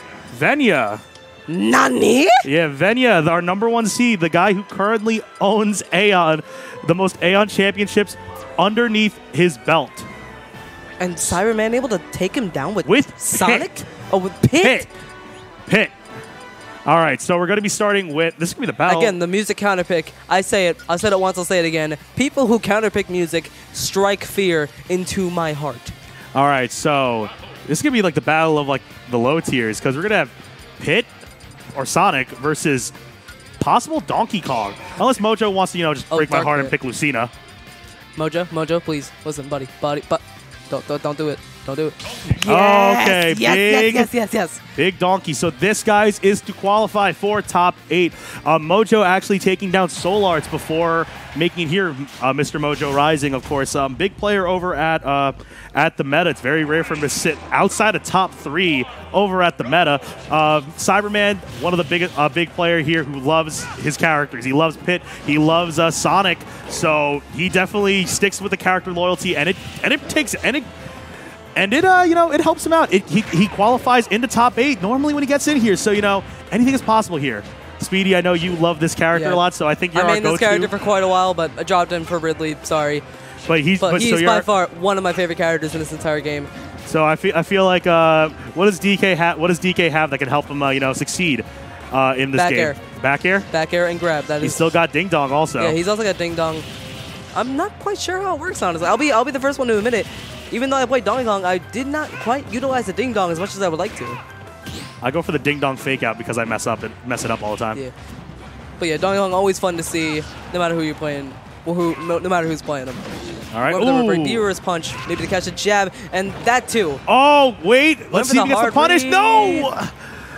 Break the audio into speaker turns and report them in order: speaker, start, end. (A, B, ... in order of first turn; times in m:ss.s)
0:00.3-0:01.0 A
0:01.5-0:02.4 B
0:02.4-0:10.1 A
0:11.0-0:14.9 B
0:12.8-0:13.8 A
0:14.6-0:14.9 A
0:15.7-0:15.9 A
0:16.8-0:19.2 A
0:18.8-0:25.9 B
0:26.3-0:31.1 A
0:31.7-0:32.9 A
0:33.6-0:37.3 A
0:36.1-0:36.7 B
0:38.2-0:44.6 B
0:42.4-0:44.1 A
0:44.7-1:10.7 A
1:11.6-1:20.7 A
1:19.1-1:19.4 B
1:19.9-1:23.0 B
1:23.5-1:24.4 A
1:23.8-1:26.5 B
1:26.8-1:33.5 A
1:32.3-1:32.8 B
1:33.5-1:34.7 B
1:34.4-1:35.8 A
1:35.6-1:36.6 B
1:37.3-1:44.2 B
1:45.0-1:47.8 A
1:48.8-1:53.1 B
1:53.5-1:54.5 A
1:53.7-1:57.0 B
1:57.0-1:59.9 A
1:58.1-1:59.7 B